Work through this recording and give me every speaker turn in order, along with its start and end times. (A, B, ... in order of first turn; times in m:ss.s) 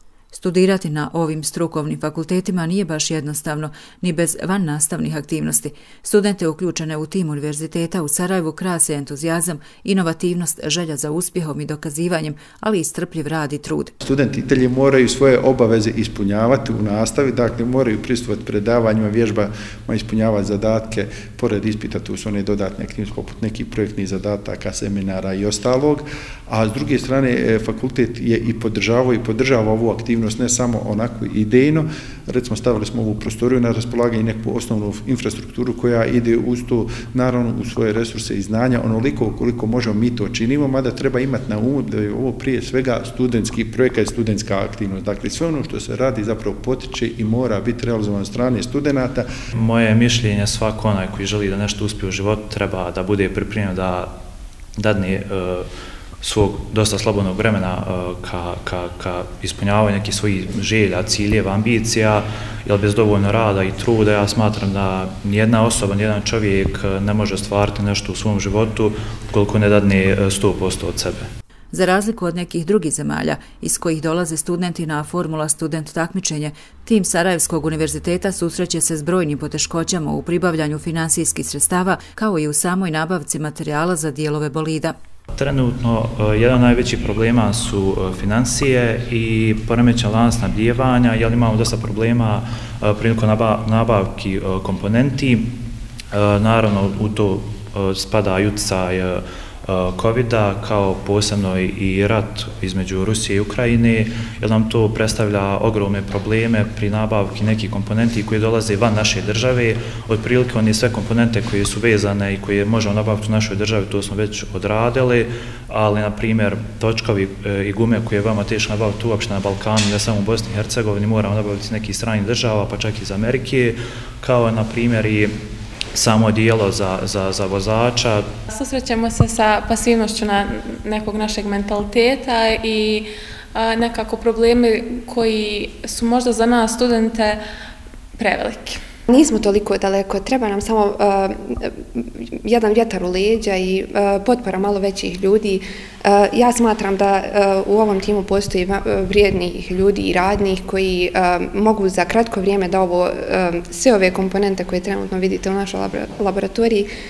0:00.3-0:13.9 A
0:14.0-0:49.3 B
0:49.5-0:54.1 C
0:54.8-0:55.7 C
0:56.2-1:11.3 C
1:11.7-1:25.0 A
1:25.4-1:35.5 C
1:36.1-2:05.3 C
2:05.9-2:08.3 C
2:08.5-2:17.4 D
2:18.2-2:18.8 D
2:19.1-2:36.9 E